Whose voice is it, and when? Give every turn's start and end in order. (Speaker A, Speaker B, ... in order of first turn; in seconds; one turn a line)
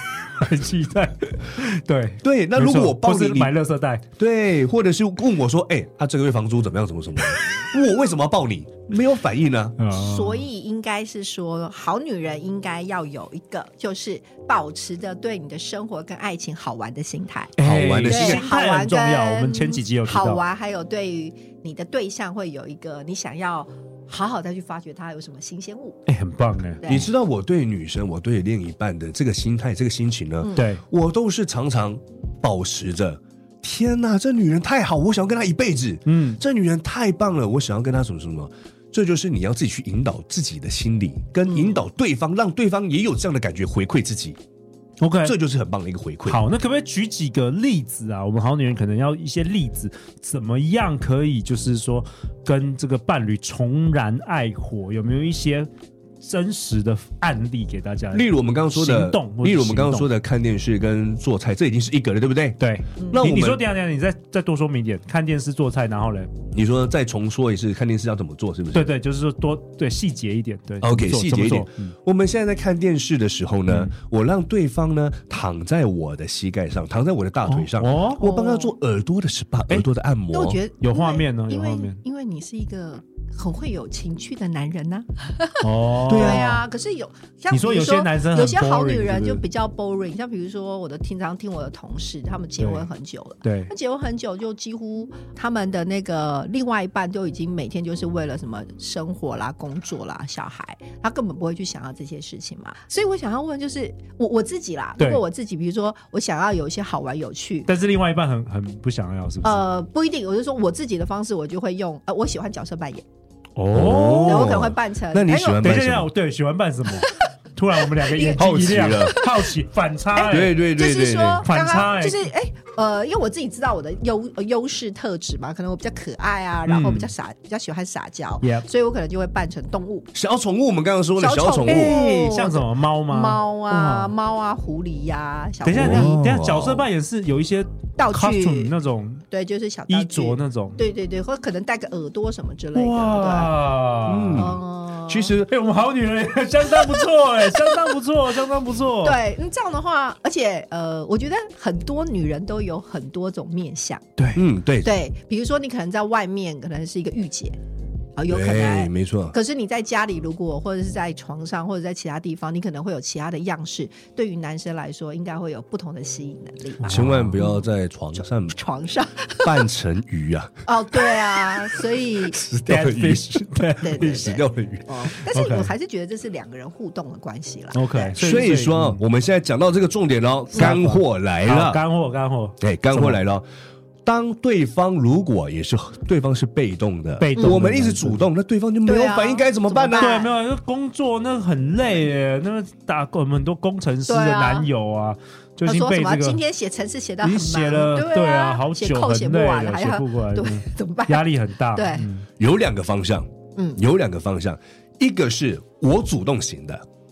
Speaker A: 0.4-4.0
Speaker B: 2.2-3.5
Speaker B: 4.2-9.8
Speaker A: 9.8-10.4
Speaker C: 9.9-26.0
Speaker A: 17.6-20.4
Speaker B: 17.6-18.4
Speaker A: 26.1-26.9
Speaker C: 26.8-27.1
Speaker B: 26.9-44.4
Speaker A: 30.5-30.8
Speaker A: 36.0-36.4
Speaker C: 41.5-41.8
Speaker A: 45.0-45.4
Speaker B: 45.2-46.4
Speaker A: 46.2-55.7
Speaker A: 56.2-60.1
Speaker B: 58.1-63.6
Speaker A: 62.6-66.3
Speaker B: 66.5-68.9
Speaker A: 68.7-71.9
Speaker B: 70.8-80.6
Speaker A: 73.7-73.9
Speaker A: 77.5-78.2
Speaker C: 78.2-78.7
Speaker C: 80.3-107.7
Speaker A: 80.8-82.0
Speaker A: 85.6-86.6
Speaker B: 86.1-86.6
Speaker A: 87.5-89.4
Speaker A: 92.6-92.8
Speaker A: 93.4-93.7
Speaker A: 107.7-109.6
Speaker C: 109.4-113.0
Speaker A: 113.5-114.6
Speaker B: 113.7-116.1
Speaker C: 114.2-115.8
Speaker A: 115.6-120.6
Speaker C: 118.0-119.5
Speaker B: 118.3-119.2
Speaker C: 120.1-130.1
Speaker B: 120.3-121.5
Speaker A: 121.4-122.2
Speaker A: 126.7-127.1
Speaker B: 130.1-132.0
Speaker C: 131.2-136.1
Speaker A: 131.7-134.1
Speaker A: 135.6-139.2
Speaker B: 135.7-136.8
Speaker C: 138.0-138.7
Speaker C: 139.3-143.5
Speaker A: 139.9-140.8
Speaker A: 142.7-144.4
Speaker B: 144.1-145.5
Speaker C: 144.3-145.3
Speaker A: 145.4-149.2
Speaker C: 146.8-147.9
Speaker C: 149.0-154.1
Speaker B: 154.3-154.9
Speaker C: 154.8-157.6
Speaker C: 158.2-167.6
Speaker B: 158.3-159.3
Speaker A: 166.8-167.4
Speaker B: 166.9-168.6
Speaker C: 168.2-169.7
Speaker B: 169.4-171.2
Speaker C: 170.7-172.4
Speaker B: 172.3-174.9
Speaker A: 172.6-174.2
Speaker C: 173.8-178.4
Speaker A: 175.3-175.7
Speaker A: 177.7-179.0
Speaker B: 178.2-181.8
Speaker A: 180.6-183.2
Speaker B: 182.6-183.4
Speaker B: 184.0-190.1
Speaker A: 187.2-188.2
Speaker C: 187.4-187.6
Speaker C: 188.8-190.3
Speaker A: 190.0-196.4
Speaker C: 194.1-194.7
Speaker C: 195.7-202.1
Speaker A: 197.2-202.2
Speaker B: 202.4-206.8